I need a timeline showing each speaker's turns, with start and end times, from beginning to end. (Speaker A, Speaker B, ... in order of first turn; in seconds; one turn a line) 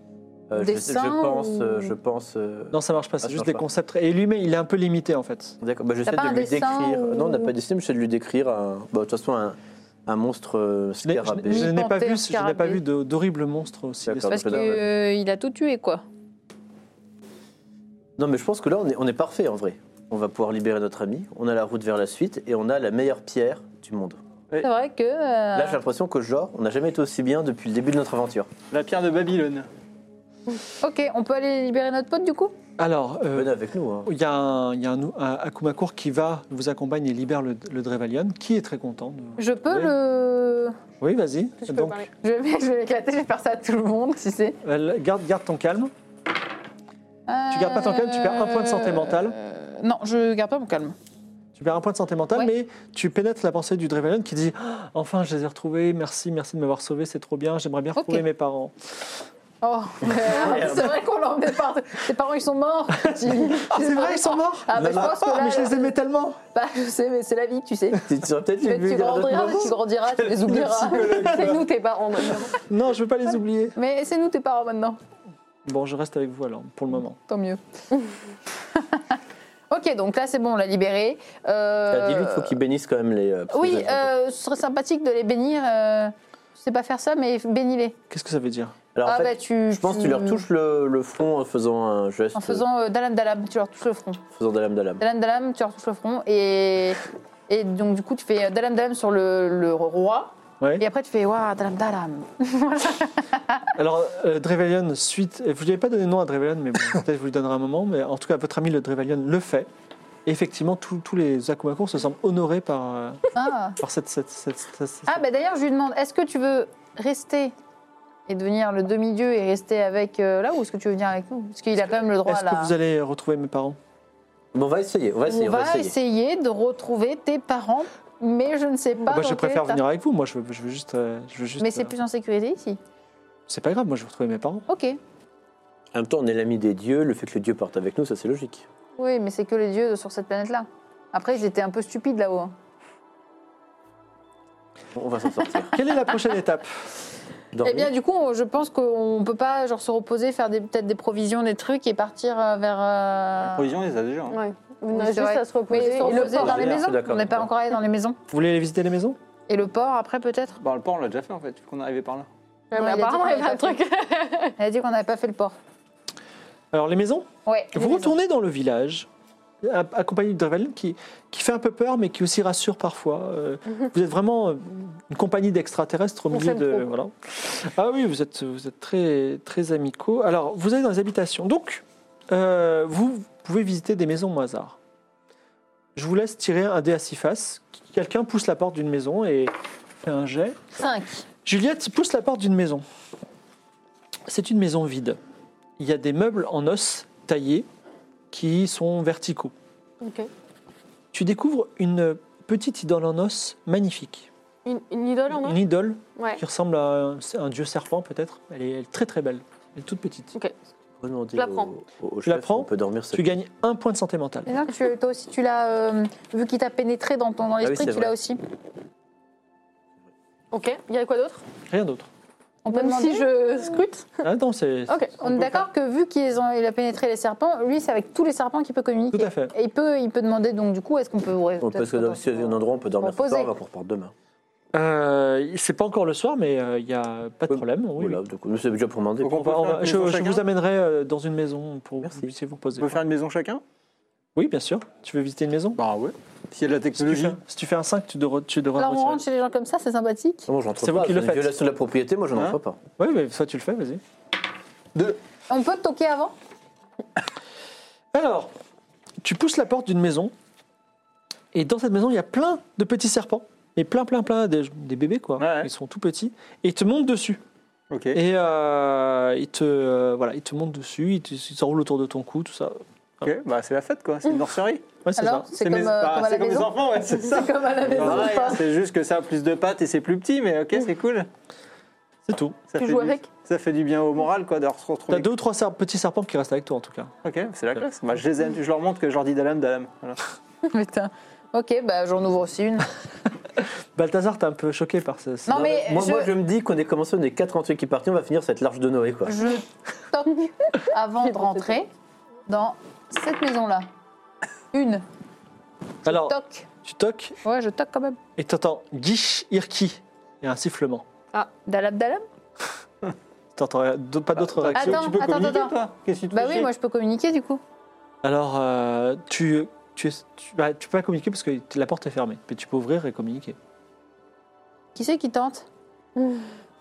Speaker A: 0.5-3.6
Speaker B: 0.5-1.9
Speaker C: 2.7-5.6
Speaker A: 5.6-11.7
Speaker B: 6.0-7.5
Speaker C: 11.0-14.7
Speaker B: 11.5-12.8
Speaker A: 14.0-14.8
Speaker B: 14.3-16.0
Speaker A: 18.2-24.2
Speaker B: 24.6-25.8
Speaker A: 25.5-28.5
Speaker D: 28.7-29.7
Speaker B: 30.8-32.5
Speaker C: 32.8-39.9
Speaker A: 33.3-34.1
Speaker B: 39.4-40.8
Speaker C: 41.0-42.1
Speaker E: 41.6-42.1
Speaker B: 42.2-44.6
Speaker C: 44.6-45.9
Speaker B: 47.3-51.0
Speaker C: 47.5-49.4
Speaker C: 51.5-58.7
Speaker B: 58.0-58.2
Speaker B: 59.6-65.9
Speaker A: 60.0-60.9
Speaker C: 63.2-66.4
Speaker A: 64.7-65.2
Speaker B: 66.5-68.1
Speaker A: 68.0-69.7
Speaker B: 68.6-71.6
Speaker D: 70.2-71.6
Speaker E: 71.3-72.5
Speaker C: 72.7-73.8
Speaker B: 73.8-75.0
Speaker C: 75.7-77.2
Speaker B: 77.3-77.6
Speaker B: 78.7-79.2
Speaker B: 79.7-82.5
Speaker A: 81.9-84.1
Speaker B: 83.5-88.0
Speaker C: 88.1-88.7
Speaker A: 88.9-92.7
Speaker B: 89.0-90.4
Speaker B: 92.3-94.2
Speaker A: 94.3-95.0
Speaker B: 95.0-103.7
Speaker C: 103.7-109.7
Speaker C: 110.2-113.2
Speaker B: 113.3-113.8
Speaker C: 113.8-115.2
Speaker B: 115.1-117.5
Speaker B: 118.3-122.7
Speaker C: 122.2-123.8
Speaker A: 124.5-125.9
Speaker B: 125.3-129.8
Speaker C: 129.1-131.9
Speaker B: 131.6-132.8
Speaker C: 133.5-134.7
Speaker B: 134.7-135.0
Speaker A: 135.9-138.7
Speaker B: 139.0-142.5
Speaker A: 144.9-145.8
Speaker C: 145.7-146.8
Speaker A: 147.5-147.9
Speaker B: 147.6-153.7
Speaker D: 153.5-154.4
Speaker E: 154.3-156.7
Speaker B: 154.9-158.2
Speaker A: 155.7-157.5
Speaker D: 156.4-156.8
Speaker C: 158.3-159.2
Speaker B: 159.5-160.6
Speaker D: 160.6-162.3
Speaker E: 162.7-164.6
Speaker B: 162.7-163.8
Speaker B: 164.6-165.6
Speaker C: 166.7-169.1
Speaker B: 167.4-168.1
Speaker C: 169.6-184.8
Speaker E: 176.3-176.8
Speaker C: 185.9-190.6
Speaker B: 190.7-191.2
Speaker C: 191.4-192.8
Speaker C: 194.3-195.2
Speaker C: 195.8-197.7
Speaker C: 198.3-199.5
Speaker E: 200.0-200.3
Speaker C: 201.1-204.3
Speaker E: 204.6-205.6
Speaker C: 205.3-210.3
Speaker E: 206.2-206.4
Speaker A: 211.0-213.3
Speaker E: 211.3-211.7
Speaker C: 212.2-214.5
Speaker B: 214.5-218.4
Speaker A: 217.6-218.1
Speaker E: 220.5-221.4
Speaker C: 221.7-222.1
Speaker B: 222.6-223.8
Speaker E: 222.7-224.2
Speaker C: 224.2-225.4
Speaker E: 224.9-225.2
Speaker B: 225.2-233.5
Speaker C: 229.1-229.5
Speaker A: 231.6-234.1
Speaker C: 234.7-238.2
Speaker A: 237.5-239.5
Speaker D: 239.2-240.4
Speaker C: 239.3-243.0
Speaker D: 242.8-243.6
Speaker C: 244.3-245.8
Speaker D: 245.8-247.4
Speaker C: 247.0-249.2
Speaker B: 248.8-250.5
Speaker A: 250.5-252.8
Speaker C: 250.8-251.5
Speaker C: 253.0-254.0
Speaker B: 255.5-256.3
Speaker C: 258.1-258.5
Speaker C: 259.2-260.3
Speaker C: 261.5-267.4
Speaker D: 265.4-265.7
Speaker D: 267.9-268.2
Speaker C: 268.1-273.3
Speaker D: 273.2-274.9
Speaker C: 275.0-275.5
Speaker B: 275.2-278.6
Speaker D: 275.5-281.3
Speaker C: 277.9-278.3
Speaker C: 282.2-282.6
Speaker D: 282.7-285.3
Speaker E: 282.8-283.2
Speaker C: 285.1-287.1
Speaker D: 287.2-290.2
Speaker B: 290.6-292.9
Speaker C: 293.9-295.6
Speaker B: 295.5-296.3
Speaker A: 295.5-299.4
Speaker B: 299.2-301.9
Speaker E: 301.2-301.7
Speaker B: 302.5-303.9
Speaker B: 304.7-305.0
Speaker C: 306.1-307.4
Speaker B: 306.1-306.7
Speaker B: 307.4-308.2
Speaker C: 308.4-311.1
Speaker B: 311.6-312.2
Speaker C: 313.5-315.1
Speaker D: 314.4-316.7
Speaker B: 314.7-315.8
Speaker B: 316.3-317.6
Speaker C: 318.2-323.6
Speaker B: 324.9-325.6
Speaker E: 326.1-326.5